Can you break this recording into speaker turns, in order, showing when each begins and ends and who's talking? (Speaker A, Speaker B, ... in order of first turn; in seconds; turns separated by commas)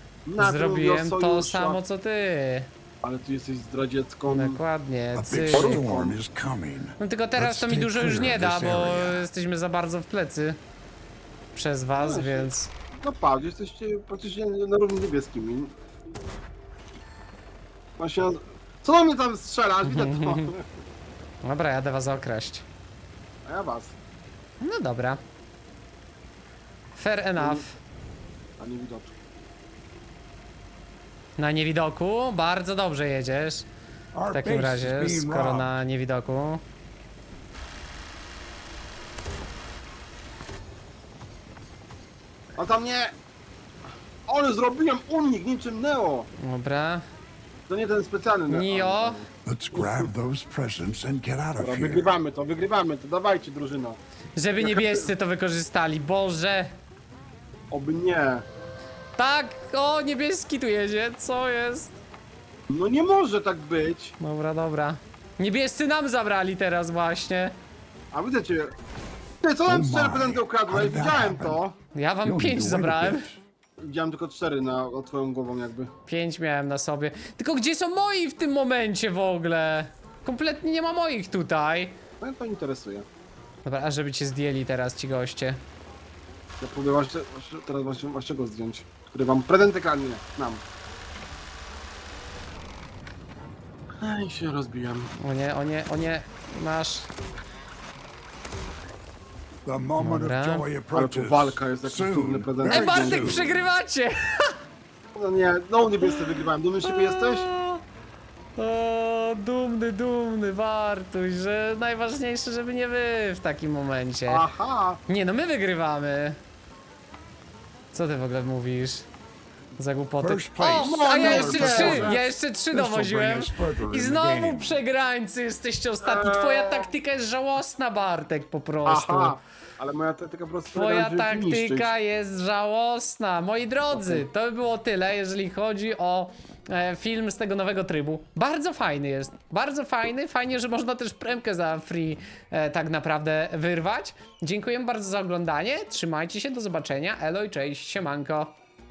Speaker A: 0.3-1.8, Speaker B: 0.4-2.7, Speaker A: 3.0-4.6, Speaker B: 4.3-5.8, Speaker C: 5.1-9.3, Speaker A: 5.5-6.2, Speaker B: 7.0-10.6, Speaker B: 11.5-12.7, Speaker A: 12.0-15.7, Speaker A: 18.0-20.6, Speaker B: 19.8-20.5, Speaker B: 21.4-22.7, Speaker A: 23.5-24.0, Speaker B: 24.6-25.2, Speaker B: 27.0-27.8, Speaker A: 27.4-27.6, Speaker A: 28.6-29.1, Speaker B: 31.4-33.7, Speaker C: 34.1-35.8, Speaker B: 34.3-36.6, Speaker A: 42.6-43.1, Speaker A: 44.3-46.3, Speaker B: 46.4-47.0, Speaker A: 47.7-50.1, Speaker B: 48.5-49.2, Speaker C: 49.5-52.1, Speaker A: 51.6-54.0, Speaker B: 54.4-56.8, Speaker A: 54.6-55.1, Speaker A: 57.7-58.5, Speaker B: 59.2-62.0, Speaker A: 62.7-64.2, Speaker B: 64.2-67.5, Speaker A: 68.1-68.7, Speaker A: 69.4-71.8, Speaker C: 69.7-71.6, Speaker B: 71.9-73.3, Speaker C: 72.2-73.4, Speaker A: 73.8-75.9, Speaker B: 76.1-82.0, Speaker A: 82.2-83.1, Speaker B: 83.7-85.6, Speaker A: 86.6-90.6, Speaker A: 94.0-95.1, Speaker B: 95.2-97.1, Speaker C: 99.7-103.7, Speaker B: 100.0-100.7, Speaker A: 100.9-103.4, Speaker B: 102.7-104.6, Speaker A: 105.2-107.5, Speaker B: 106.0-107.8, Speaker B: 108.6-114.4, Speaker A: 114.3-115.0, Speaker B: 115.1-116.4, Speaker B: 117.9-119.1, Speaker B: 119.8-129.4, Speaker C: 120.2-122.2, Speaker A: 120.8-122.3, Speaker C: 122.7-124.8, Speaker A: 126.0-126.9, Speaker A: 128.8-131.9, Speaker B: 130.7-148.6, Speaker A: 133.9-134.3